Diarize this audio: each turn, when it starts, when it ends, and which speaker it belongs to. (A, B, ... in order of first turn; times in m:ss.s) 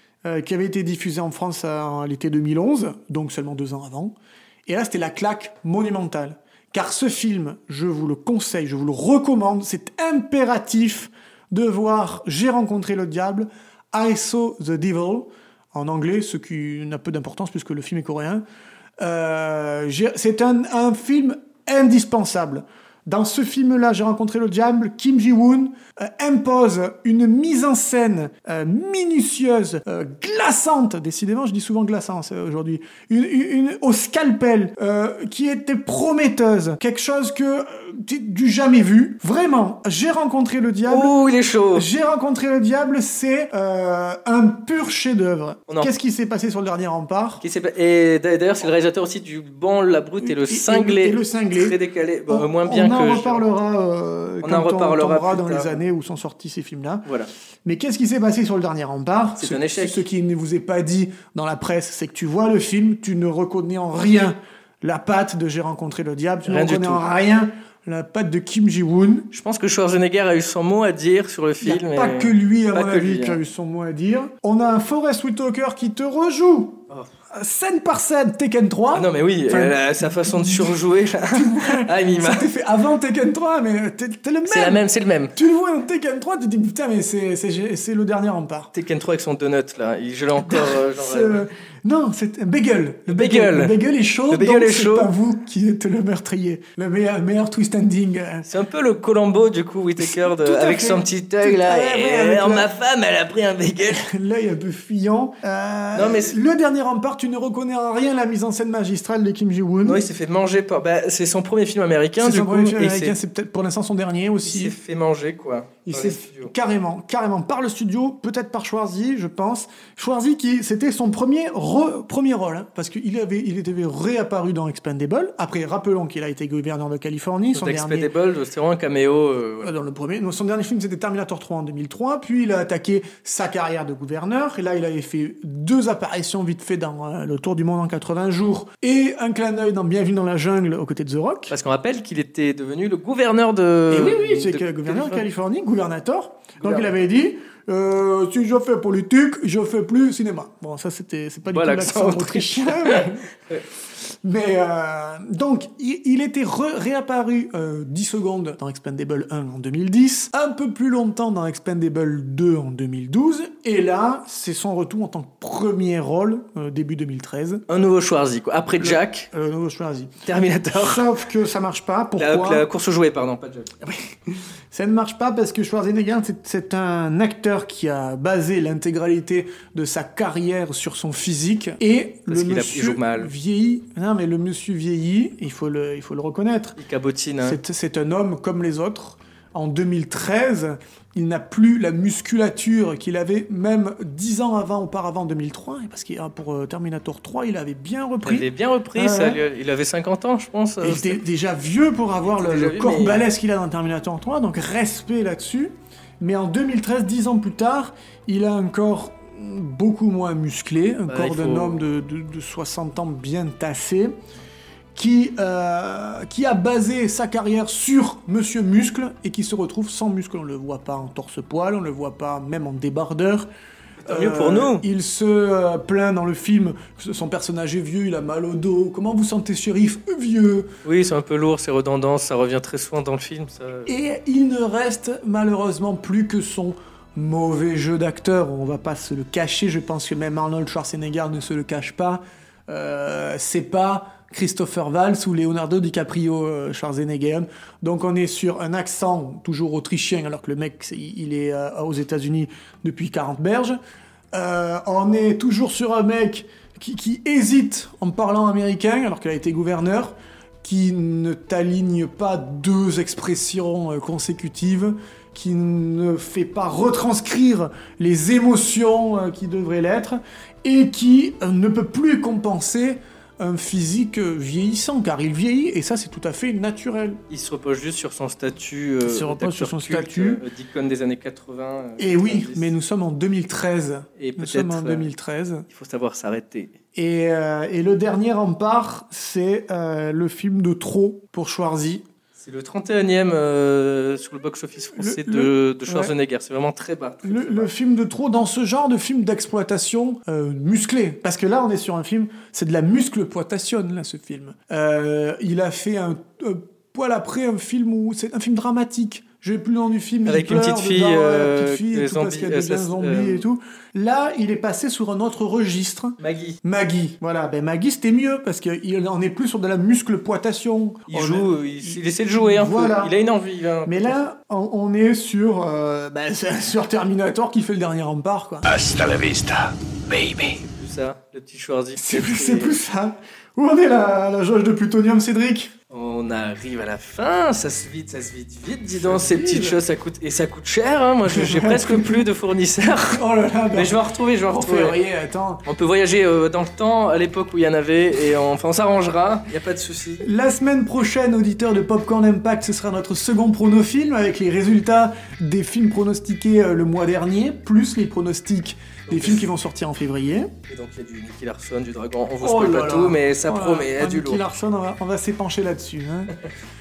0:00.2-0:04.1 A
0:04.7-0:18.4 A
0:19.0-0:41.2 A
0:40.9-0:41.9 B
0:41.7-0:47.4 A
0:47.4-0:53.4 B
0:50.2-0:57.1 A
0:54.4-0:55.8 B
0:57.0-0:57.3 B
0:57.6-1:09.3 A
0:59.4-1:00.0 B
1:06.4-1:07.0 B
1:09.3-1:13.4 B
1:11.6-1:20.8 A
1:18.9-1:22.5 B
1:21.3-1:24.8 A
1:24.4-1:25.3 B
1:25.3-1:28.7 A
1:28.7-1:31.4 B
1:30.4-1:38.4 A
1:33.1-1:33.8 B
1:34.3-1:35.1 B
1:38.4-1:44.1 B
1:40.0-1:42.7 A
1:43.9-1:50.0 A
1:45.9-1:46.4 B
1:49.8-1:53.2 B
1:52.2-1:54.8 A
1:54.4-1:56.5 B
1:55.8-2:08.1 A
2:07.5-2:09.7 B
2:09.6-2:21.5 A
2:21.5-2:25.2 B
2:23.9-2:33.2 A
2:26.6-2:26.9 B
2:31.4-2:33.6 B
2:34.1-2:47.6 A
2:47.7-2:49.3 B
2:48.8-2:50.1 A
2:50.2-2:51.0 B
2:50.7-2:52.6 A
2:52.2-2:53.7 B
2:53.8-3:06.8 A
3:02.3-3:03.3 B
3:06.8-3:07.6 B
3:07.4-3:19.4 A
3:18.2-3:21.2 B
3:20.8-3:34.2 A
3:22.3-3:23.2 B
3:31.1-3:31.8 B
3:34.9-3:43.5 A
3:44.0-3:44.8 B
3:44.1-3:50.7 A
3:50.8-3:53.9 B
3:53.8-4:13.8 A
4:14.3-4:37.2 A
4:37.3-4:42.7 B
4:39.0-4:40.4 A
4:42.0-4:45.6 A
4:44.2-4:45.1 B
4:45.7-4:46.7 B
4:46.9-4:52.0 A
4:52.4-4:57.7 B
4:54.9-4:56.1 A
4:57.2-5:23.1 A
5:10.2-5:13.4 B
5:16.2-5:16.6 B
5:21.1-5:24.1 B
5:23.8-5:28.7 A
5:28.6-5:30.6 C
5:30.4-5:32.8 B
5:31.9-5:35.7 A
5:35.9-5:43.2 B
5:39.0-5:39.8 A
5:41.3-5:42.2 A
5:43.1-5:45.6 A
5:43.7-5:45.0 B
5:45.6-5:50.2 B
5:50.2-6:00.5 A
5:59.1-5:59.4 B
6:00.7-6:04.4 B
6:02.4-6:06.3 A